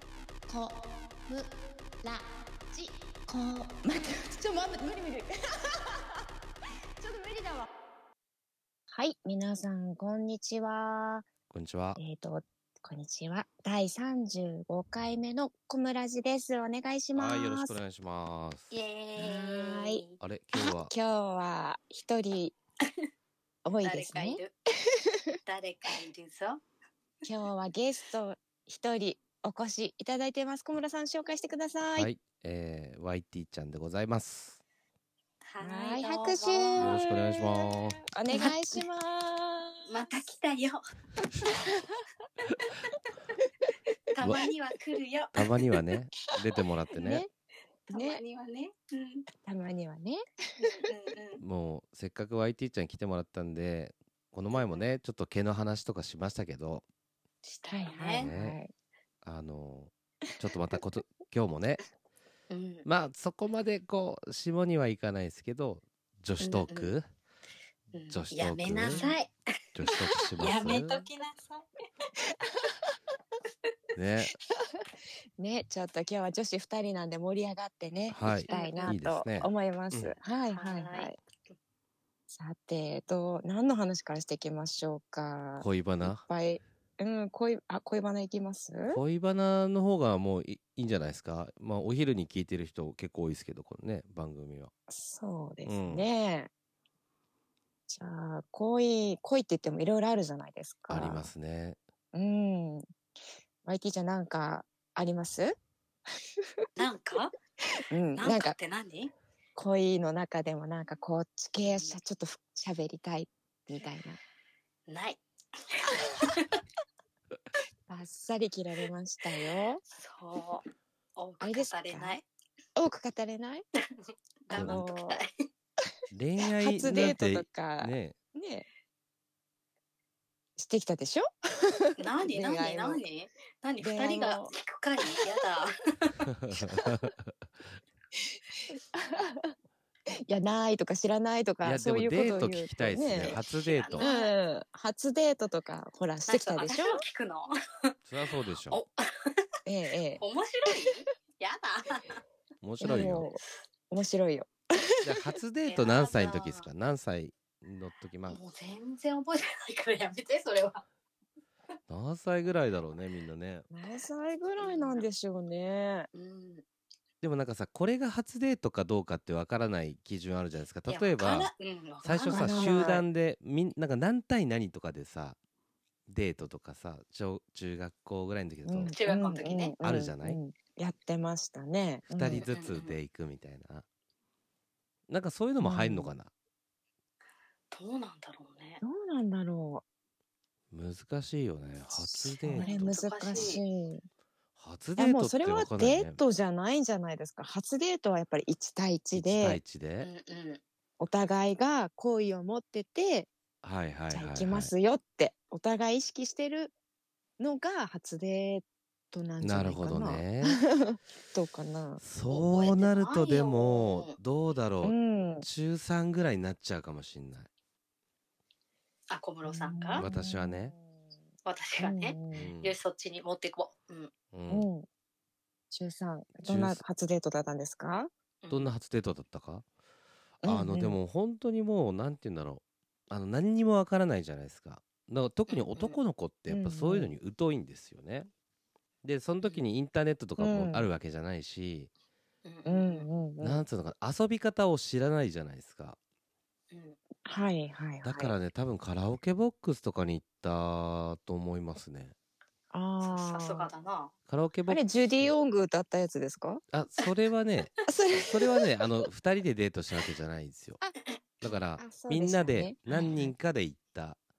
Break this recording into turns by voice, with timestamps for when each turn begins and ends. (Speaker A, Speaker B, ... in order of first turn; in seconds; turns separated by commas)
Speaker A: 0.5-1.5, Speaker A: 2.0-5.8, Speaker A: 7.0-7.7, Speaker A: 8.9-11.2, Speaker B: 11.5-12.0, Speaker A: 11.9-17.8, Speaker B: 17.1-18.7, Speaker C: 18.7-20.2, Speaker A: 19.2-20.0, Speaker B: 20.2-20.9, Speaker A: 20.5-22.5, Speaker A: 23.6-24.4, Speaker C: 23.8-24.5, Speaker C: 25.4-26.6, Speaker A: 27.2-32.1, Speaker B: 31.9-34.6, Speaker C: 35.4-37.0, Speaker A: 35.6-40.2, Speaker B: 36.8-38.0, Speaker C: 38.3-38.8, Speaker C: 39.9-41.5, Speaker C: 44.1-45.6, Speaker B: 45.3-47.2, Speaker A: 46.9-47.3, Speaker C: 47.9-49.3, Speaker A: 47.9-48.2, Speaker A: 49.4-50.2, Speaker C: 50.6-51.4, Speaker B: 51.4-56.9, Speaker C: 57.4-58.3, Speaker A: 57.7-58.7, Speaker B: 58.1-58.6, Speaker B: 59.2-61.8, Speaker C: 62.5-62.9, Speaker B: 62.8-67.1, Speaker C: 66.4-66.9, Speaker C: 67.9-69.3, Speaker B: 68.1-69.1, Speaker A: 68.8-69.2, Speaker B: 69.7-71.0, Speaker C: 70.4-71.6, Speaker B: 74.0-74.3, Speaker A: 75.4-81.2, Speaker B: 78.1-80.1, Speaker C: 78.5-79.0, Speaker C: 80.5-81.5, Speaker A: 82.3-89.0, Speaker B: 85.6-86.2, Speaker B: 88.9-94.7, Speaker A: 94.9-96.5, Speaker B: 95.6-96.1, Speaker A: 97.9-101.3, Speaker B: 100.9-101.8, Speaker A: 102.1-102.8, Speaker A: 103.6-105.5, Speaker C: 106.8-107.3, Speaker A: 107.9-108.5, Speaker C: 108.2-109.1, Speaker A: 109.5-114.2, Speaker C: 111.6-111.9, Speaker C: 114.9-115.2, Speaker C: 116.0-116.6, Speaker A: 117.9-119.8, Speaker C: 120.0-122.2, Speaker A: 121.4-122.2, Speaker A: 122.8-123.6, Speaker C: 124.0-125.3, Speaker A: 124.5-125.2, Speaker B: 124.5-124.8, Speaker B: 126.1-128.1, Speaker A: 126.6-128.7, Speaker A: 130.6-133.0, Speaker C: 132.0-136.2, Speaker A: 133.8-134.5, Speaker B: 136.3-137.3, Speaker A: 138.7-139.5, Speaker A: 140.3-143.3, Speaker B: 141.6-144.0, Speaker C: 143.1-144.3, Speaker A: 144.0-147.0, Speaker C: 146.3-147.9, Speaker B: 148.1-148.8, Speaker C: 148.7-149.4, Speaker A: 149.7-150.2, Speaker C: 150.2-152.2, Speaker B: 152.6-153.3, Speaker A: 152.8-155.0, Speaker C: 152.8-153.2, Speaker B: 155.0-158.4, Speaker C: 155.7-156.7, Speaker C: 158.3-160.8, Speaker B: 161.9-163.7, Speaker A: 163.7-166.1, Speaker C: 164.6-165.1, Speaker C: 166.1-166.6, Speaker B: 167.2-171.5, Speaker C: 170.9-172.9, Speaker B: 172.0-175.4, Speaker A: 172.3-173.0, Speaker B: 176.1-178.9, Speaker A: 178.6-182.4, Speaker C: 178.8-179.7, Speaker B: 179.8-180.4, Speaker B: 182.1-183.8, Speaker C: 182.4-183.0, Speaker B: 185.1-186.3, Speaker A: 185.6-186.1, Speaker C: 187.7-188.8, Speaker A: 188.8-189.8, Speaker B: 190.7-193.6, Speaker A: 192.0-194.0, Speaker C: 192.4-193.6, Speaker B: 194.6-196.2, Speaker A: 195.0-199.6, Speaker B: 199.1-200.1, Speaker C: 200.0-200.6, Speaker A: 201.0-203.3, Speaker B: 203.6-204.7, Speaker A: 204.1-206.7, Speaker A: 207.4-212.0, Speaker B: 209.4-210.6, Speaker B: 212.0-217.5, Speaker C: 212.3-214.2, Speaker A: 214.8-215.4, Speaker C: 219.1-220.0, Speaker A: 219.4-220.9, Speaker B: 220.0-220.7, Speaker C: 221.4-224.1, Speaker A: 221.8-222.5, Speaker B: 222.3-222.8, Speaker B: 224.3-224.7, Speaker A: 224.5-224.9, Speaker A: 225.7-228.1, Speaker B: 226.4-226.8, Speaker C: 228.4-228.7, Speaker B: 228.5-229.6, Speaker A: 230.4-231.0, Speaker B: 230.4-238.3, Speaker C: 235.5-236.0, Speaker A: 236.5-237.1, Speaker B: 239.0-241.9, Speaker A: 240.4-240.9, Speaker C: 242.4-243.1, Speaker A: 242.6-243.6, Speaker B: 243.4-246.0, Speaker C: 246.7-246.9, Speaker A: 247.2-248.3, Speaker B: 248.0-252.1, Speaker A: 252.7-253.7, Speaker C: 253.0-254.1, Speaker B: 254.3-255.3, Speaker A: 254.7-256.6, Speaker B: 256.7-260.8, Speaker A: 257.9-258.5, Speaker B: 261.4-264.2, Speaker A: 261.8-262.8, Speaker C: 262.9-263.1